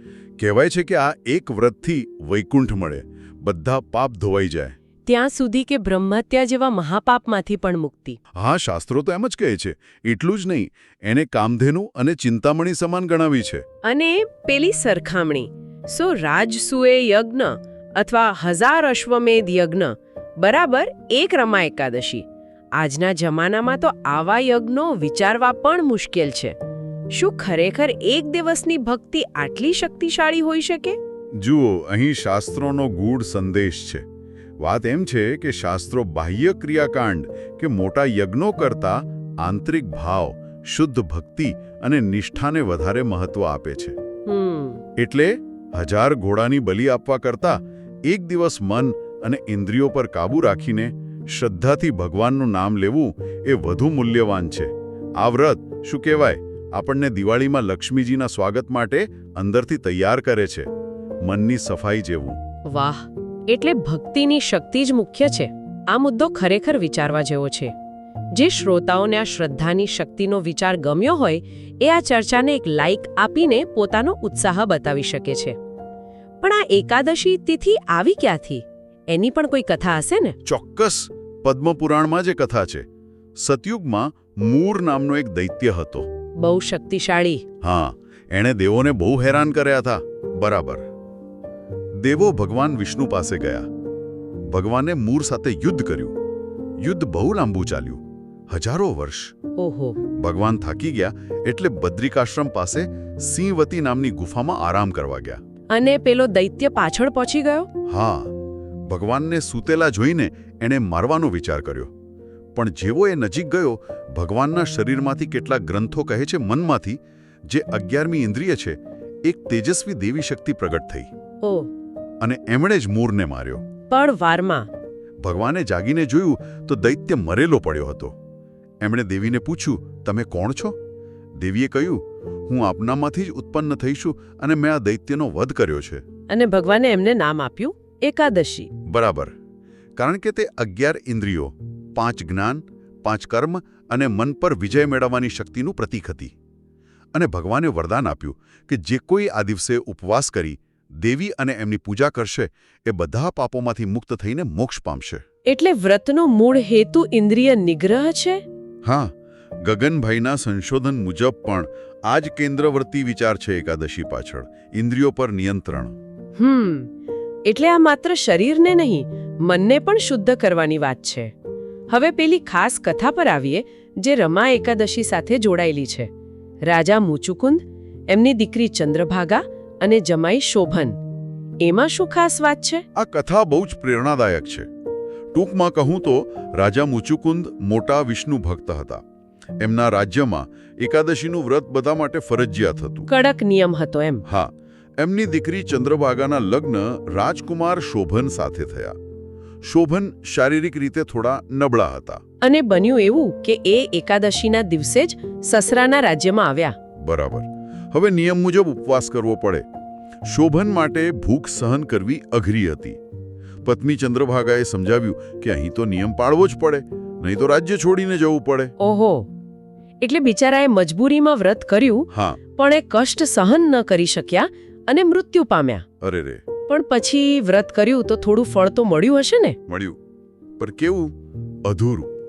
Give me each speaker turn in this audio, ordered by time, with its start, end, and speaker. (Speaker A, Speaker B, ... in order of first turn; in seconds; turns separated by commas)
Speaker A: 0.4-4.7, Speaker B: 5.0-8.2, Speaker A: 8.3-13.6, Speaker B: 13.8-22.2, Speaker B: 22.8-26.6, Speaker B: 27.1-31.0, Speaker A: 31.4-34.0, Speaker A: 34.6-43.9, Speaker B: 44.3-44.8, Speaker A: 45.0-60.7, Speaker A: 61.2-62.4, Speaker B: 62.7-67.7, Speaker B: 68.3-75.5, Speaker B: 76.4-80.3, Speaker A: 80.4-82.8, Speaker A: 83.4-86.1, Speaker B: 86.4-87.4, Speaker A: 87.6-90.8, Speaker A: 92.0-93.7, Speaker A: 94.5-96.1, Speaker A: 96.8-99.3, Speaker B: 99.6-100.0, Speaker A: 100.2-105.4, Speaker B: 105.7-107.7, Speaker A: 107.9-108.3, Speaker A: 108.9-111.9, Speaker A: 112.5-121.1, Speaker B: 121.4-121.7, Speaker A: 122.2-123.6, Speaker B: 123.9-124.7, Speaker A: 125.2-128.1, Speaker A: 128.8-130.8, Speaker A: 131.4-136.0, Speaker B: 136.3-138.7, Speaker A: 138.9-139.3, Speaker A: 140.0-146.3, Speaker A: 147.1-155.2, Speaker B: 155.4-158.4, Speaker A: 158.8-159.1, Speaker A: 159.6-165.9, Speaker B: 166.4-166.9, Speaker B: 167.4-171.3, Speaker B: 171.9-176.1, Speaker B: 176.6-181.0, Speaker B: 181.6-182.8, Speaker A: 182.9-184.7, Speaker A: 185.3-189.0, Speaker A: 189.6-193.1, Speaker B: 193.1-194.2, Speaker A: 194.2-198.9, Speaker A: 199.6-202.2, Speaker B: 202.4-206.8, Speaker A: 207.0-209.7, Speaker A: 210.2-213.0, Speaker A: 213.6-218.7, Speaker B: 218.8-219.3, Speaker B: 220.0-225.8, Speaker A: 222.1-222.4, Speaker A: 226.0-226.4, Speaker B: 226.7-229.6, Speaker A: 229.7-230.0, Speaker A: 230.6-231.1, Speaker A: 231.6-232.1